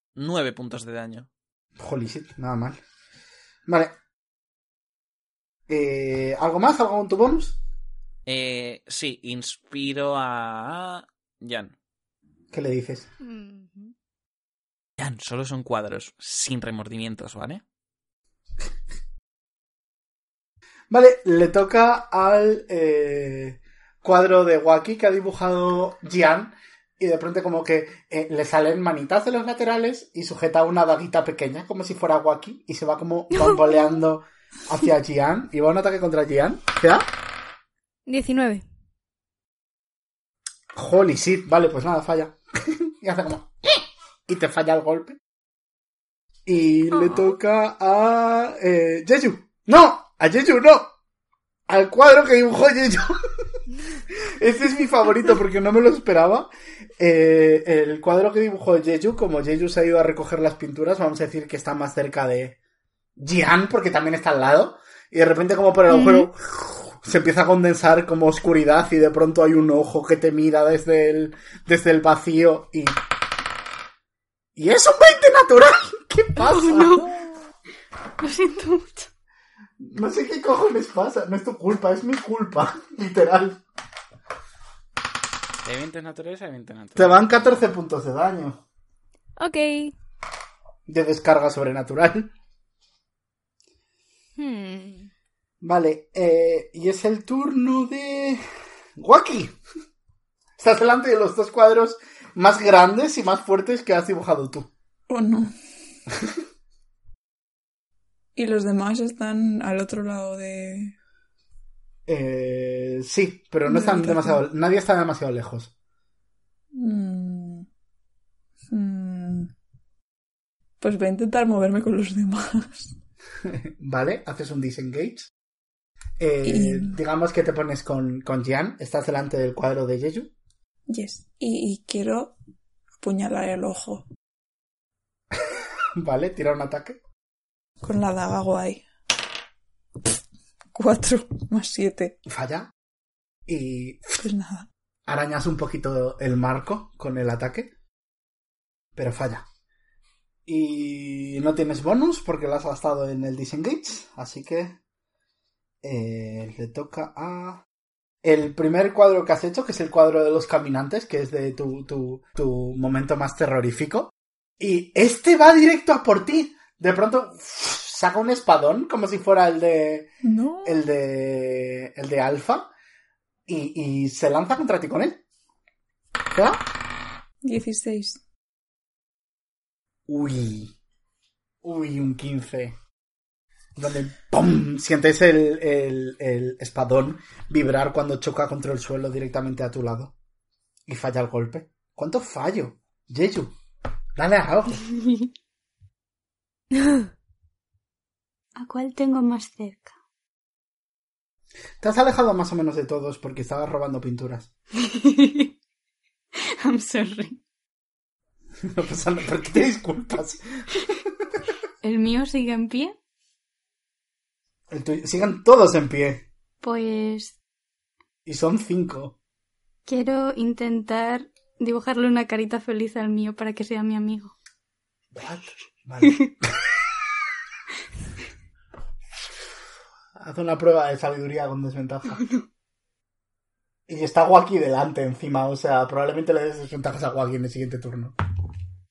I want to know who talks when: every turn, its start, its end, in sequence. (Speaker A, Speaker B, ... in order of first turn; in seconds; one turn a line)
Speaker A: 0.1-1.3
Speaker B: 1.8-2.8
Speaker B: 3.6-4.0
Speaker B: 5.7-7.6
Speaker A: 8.2-11.7
Speaker B: 12.5-13.1
Speaker C: 13.2-13.9
Speaker A: 15.0-17.6
Speaker B: 20.9-37.1
Speaker C: 38.1-38.6
Speaker B: 40.7-45.2
Speaker B: 46.5-50.9
Speaker B: 51.7-53.4
Speaker B: 54.1-62.6
Speaker B: 63.2-73.0
Speaker C: 65.9-66.3
Speaker B: 74.5-77.1
Speaker D: 76.4-77.2
Speaker D: 78.2-79.1
Speaker B: 79.8-83.6
Speaker A: 85.6-87.6
Speaker B: 87.0-88.6
Speaker C: 89.4-89.9
Speaker B: 90.8-92.3
Speaker C: 94.4-95.1
Speaker B: 95.6-98.4
Speaker B: 99.0-99.5
Speaker B: 100.6-104.7
Speaker E: 105.1-105.5
Speaker E: 108.3-110.9
Speaker B: 112.0-115.7
Speaker E: 113.7-114.4
Speaker E: 116.7-117.7
Speaker E: 118.7-119.5
Speaker E: 120.8-122.9
Speaker B: 123.5-125.3
Speaker B: 126.2-130.3
Speaker E: 126.4-127.0
Speaker E: 130.9-132.3
Speaker E: 133.0-134.0
Speaker B: 135.4-137.0
Speaker E: 137.8-138.8
Speaker E: 140.7-142.2
Speaker B: 142.3-142.7
Speaker B: 143.5-144.2
Speaker E: 144.2-144.7
Speaker B: 145.1-147.7
Speaker B: 148.9-149.4
Speaker B: 150.4-154.8
Speaker B: 155.8-157.6
Speaker B: 158.2-170.1
Speaker E: 170.2-170.8
Speaker B: 170.6-172.7
Speaker B: 173.5-175.2
Speaker B: 176.3-176.6
Speaker E: 177.4-178.2
Speaker B: 180.1-180.7
Speaker B: 181.6-182.8
Speaker B: 183.8-190.1
Speaker B: 190.9-193.5
Speaker B: 194.1-194.9
Speaker D: 195.0-195.3
Speaker D: 198.6-199.9
Speaker B: 201.8-204.5
Speaker D: 204.8-205.5
Speaker D: 206.6-207.4
Speaker B: 208.6-210.4
Speaker D: 211.8-212.9
Speaker B: 214.7-216.3
Speaker D: 216.6-217.4
Speaker B: 218.2-219.1
Speaker D: 219.8-224.3
Speaker B: 225.1-226.5
Speaker D: 226.0-226.3
Speaker B: 230.2-232.2
Speaker B: 233.9-238.1